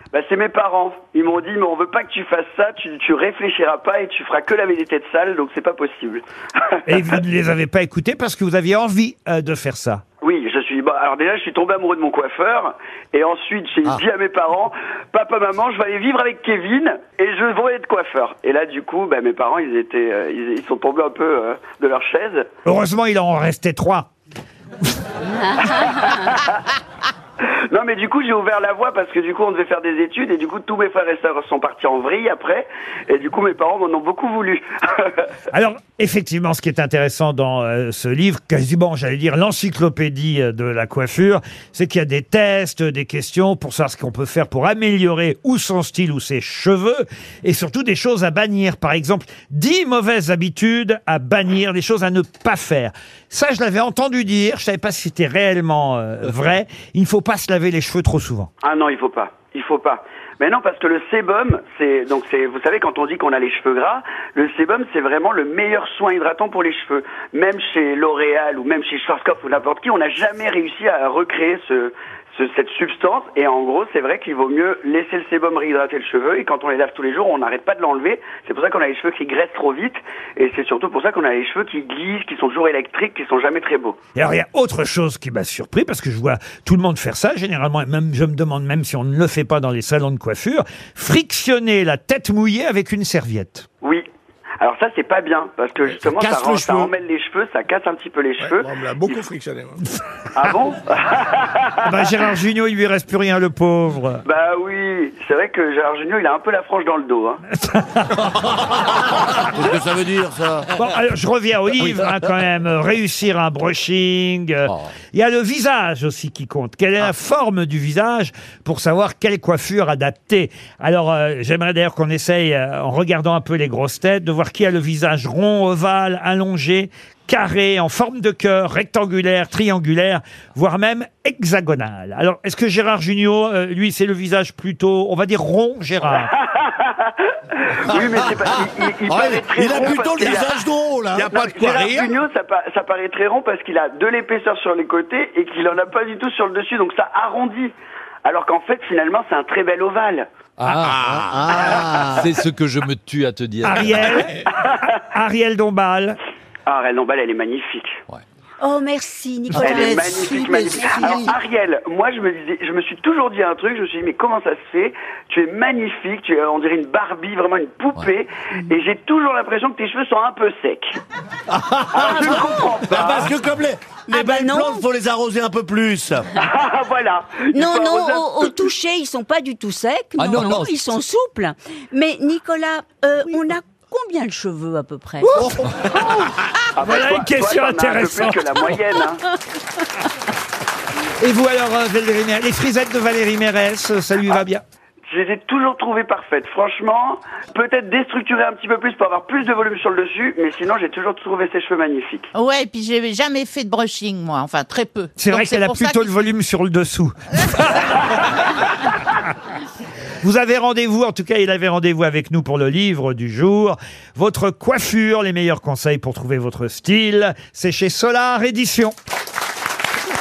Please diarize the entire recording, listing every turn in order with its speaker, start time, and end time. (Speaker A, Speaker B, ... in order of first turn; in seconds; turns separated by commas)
Speaker A: 0.1-7.2, Speaker B: 6.9-10.0, Speaker A: 10.2-22.5, Speaker B: 22.6-24.1, Speaker A: 25.6-26.6, Speaker A: 27.4-35.4, Speaker B: 35.5-58.5, Speaker A: 58.6-84.0, Speaker B: 84.2-93.7, Speaker A: 94.6-99.2, Speaker C: 96.0-96.9, Speaker D: 98.4-99.8, Speaker A: 100.4-101.9, Speaker B: 101.9-104.2, Speaker A: 104.2-107.4, Speaker B: 107.6-108.2, Speaker C: 109.3-110.7, Speaker B: 110.8-136.3, Speaker A: 136.2-140.6, Speaker C: 139.1-141.4, Speaker D: 140.0-140.4, Speaker D: 141.2-142.1, Speaker A: 141.3-147.7, Speaker A: 148.2-150.3, Speaker E: 150.6-151.4, Speaker C: 150.7-152.3, Speaker D: 150.8-151.7, Speaker A: 151.7-152.0, Speaker E: 152.2-154.1, Speaker B: 153.6-156.2, Speaker A: 154.5-154.7, Speaker A: 156.7-158.0, Speaker F: 158.6-161.1, Speaker A: 159.6-170.9, Speaker G: 159.7-161.3, Speaker C: 171.5-176.3, Speaker A: 171.9-173.3, Speaker F: 174.1-174.9, Speaker A: 176.4-178.6, Speaker F: 177.5-185.3, Speaker E: 180.2-180.8, Speaker A: 186.8-189.2, Speaker B: 186.8-188.6, Speaker B: 191.2-194.6, Speaker A: 195.1-202.3, Speaker G: 202.3-206.1, Speaker B: 205.2-208.7, Speaker B: 210.2-218.9